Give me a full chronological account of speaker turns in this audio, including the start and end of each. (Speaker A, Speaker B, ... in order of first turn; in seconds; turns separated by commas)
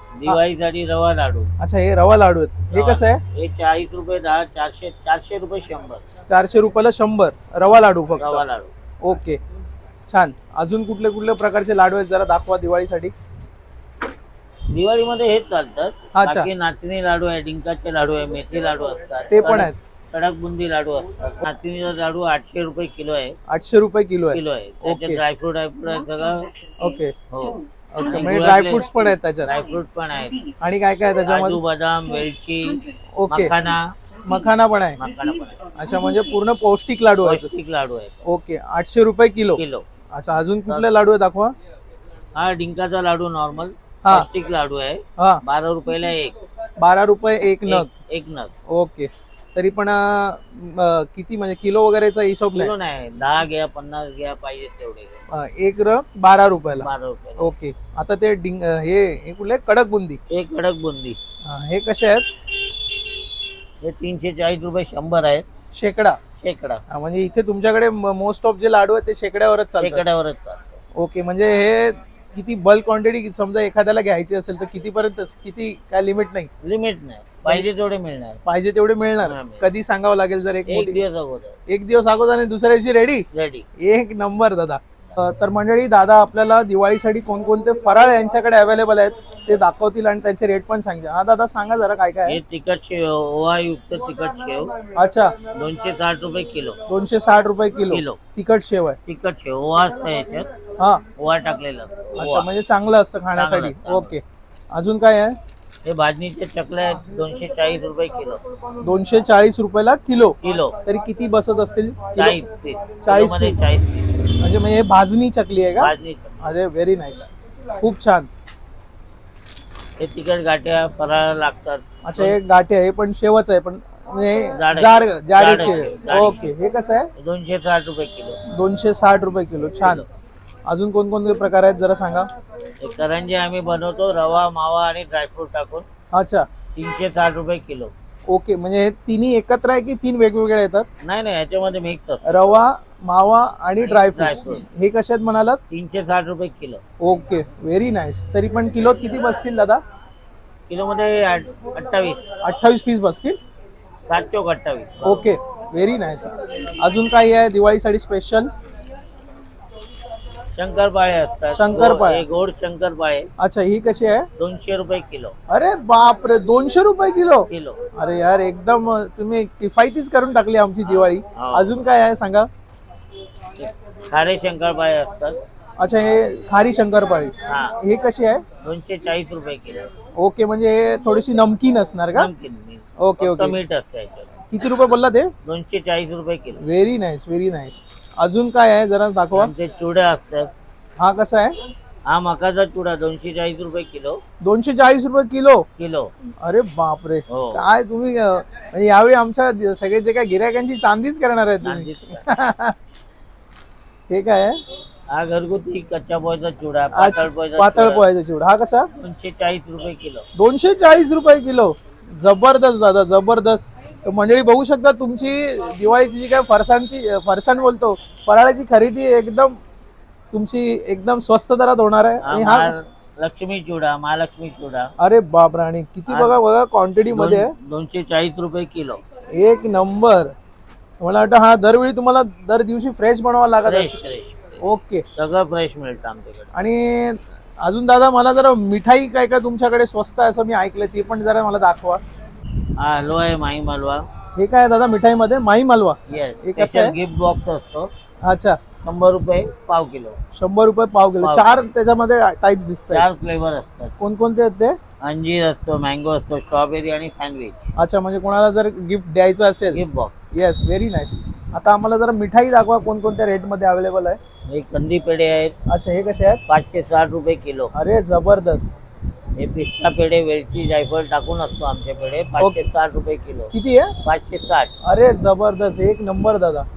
Speaker A: 0.2-1.5, Speaker B: 1.6-3.2, Speaker A: 2.7-6.0, Speaker B: 6.3-8.4, Speaker A: 8.2-8.7, Speaker B: 9.0-9.4, Speaker B: 10.1-13.1, Speaker A: 14.7-23.4, Speaker B: 16.1-16.5, Speaker B: 19.3-19.8, Speaker B: 23.5-25.2, Speaker A: 24.3-26.5, Speaker B: 26.8-27.1, Speaker A: 27.3-30.5, Speaker B: 27.9-29.5, Speaker B: 30.6-31.6, Speaker A: 31.2-34.0, Speaker B: 33.2-33.5, Speaker B: 34.2-35.0, Speaker A: 35.0-35.7, Speaker B: 35.8-37.5, Speaker A: 37.2-38.2, Speaker B: 38.2-39.6, Speaker A: 39.5-39.9, Speaker B: 40.1-41.5, Speaker A: 42.4-46.4, Speaker B: 46.8-47.9, Speaker A: 47.7-48.5, Speaker B: 48.7-52.7, Speaker A: 52.5-55.2, Speaker B: 55.3-60.2, Speaker A: 56.8-57.5, Speaker A: 60.3-61.2, Speaker B: 61.4-62.3, Speaker A: 63.8-65.5, Speaker B: 65.7-66.2, Speaker A: 66.4-66.8, Speaker B: 66.9-70.0, Speaker A: 69.8-70.8, Speaker B: 70.9-76.5, Speaker A: 76.6-78.4, Speaker B: 78.5-81.0, Speaker A: 79.2-79.7, Speaker A: 80.7-81.6, Speaker B: 81.7-83.2, Speaker A: 83.3-83.7, Speaker B: 83.8-92.4, Speaker A: 92.3-94.8, Speaker B: 95.0-95.3, Speaker A: 95.5-96.8, Speaker B: 96.9-99.0, Speaker A: 97.9-98.2, Speaker A: 99.1-100.5, Speaker B: 100.8-101.0, Speaker A: 101.2-102.5, Speaker B: 102.2-105.4, Speaker A: 103.3-104.2, Speaker A: 105.8-108.4, Speaker B: 108.8-112.4, Speaker A: 110.4-110.8, Speaker A: 112.2-114.1, Speaker B: 113.0-113.6, Speaker B: 114.4-118.3, Speaker A: 115.8-116.4, Speaker A: 120.0-122.4, Speaker B: 122.0-127.1, Speaker A: 124.5-126.5, Speaker A: 127.2-128.4, Speaker B: 128.5-130.1, Speaker A: 129.8-130.1, Speaker B: 130.7-132.3, Speaker A: 132.8-135.9, Speaker B: 136.1-136.5, Speaker A: 136.8-137.9, Speaker B: 138.3-140.9, Speaker A: 141.0-142.6, Speaker B: 142.2-145.6, Speaker A: 143.8-144.7, Speaker A: 145.7-146.8, Speaker B: 147.0-149.8, Speaker A: 150.7-152.2, Speaker B: 152.4-153.4, Speaker A: 154.1-155.3, Speaker B: 155.0-158.5, Speaker A: 160.6-163.3, Speaker B: 161.6-162.2, Speaker B: 163.4-164.3, Speaker A: 164.4-165.4, Speaker B: 165.5-172.5, Speaker A: 167.5-167.8, Speaker A: 171.3-171.8, Speaker A: 173.6-175.4, Speaker B: 175.8-178.4, Speaker A: 177.5-177.8, Speaker A: 178.6-179.9, Speaker B: 180.2-182.3, Speaker A: 182.1-184.3, Speaker B: 183.0-183.6, Speaker B: 184.5-185.3, Speaker A: 185.4-186.6, Speaker B: 186.6-189.5, Speaker A: 189.3-190.5, Speaker B: 191.0-191.6, Speaker A: 192.1-194.2, Speaker B: 194.4-195.7, Speaker A: 195.8-196.1, Speaker B: 196.4-202.8, Speaker A: 197.3-197.6, Speaker A: 201.6-202.2, Speaker B: 204.1-204.6, Speaker A: 205.1-208.1, Speaker B: 206.9-208.9, Speaker A: 209.0-210.3, Speaker B: 210.4-219.6, Speaker B: 220.3-222.7, Speaker A: 222.2-224.9, Speaker B: 225.0-227.5, Speaker A: 226.1-226.4, Speaker A: 227.1-229.0, Speaker B: 229.3-230.3, Speaker B: 231.0-234.0, Speaker A: 233.6-234.6, Speaker B: 234.6-235.1, Speaker A: 235.2-236.5, Speaker B: 236.5-242.0, Speaker A: 242.8-244.1, Speaker B: 244.3-246.9, Speaker A: 246.1-247.9, Speaker B: 248.2-248.6, Speaker A: 248.8-250.2, Speaker B: 250.3-253.1, Speaker A: 251.2-251.7, Speaker A: 252.9-253.9, Speaker B: 254.0-254.8, Speaker A: 255.0-257.7, Speaker B: 257.8-259.8, Speaker A: 259.7-260.1, Speaker B: 260.3-264.2, Speaker A: 264.5-265.6, Speaker B: 265.7-266.4, Speaker A: 266.5-267.7, Speaker B: 267.7-268.7, Speaker A: 269.4-274.7, Speaker B: 273.5-273.9, Speaker B: 274.8-276.7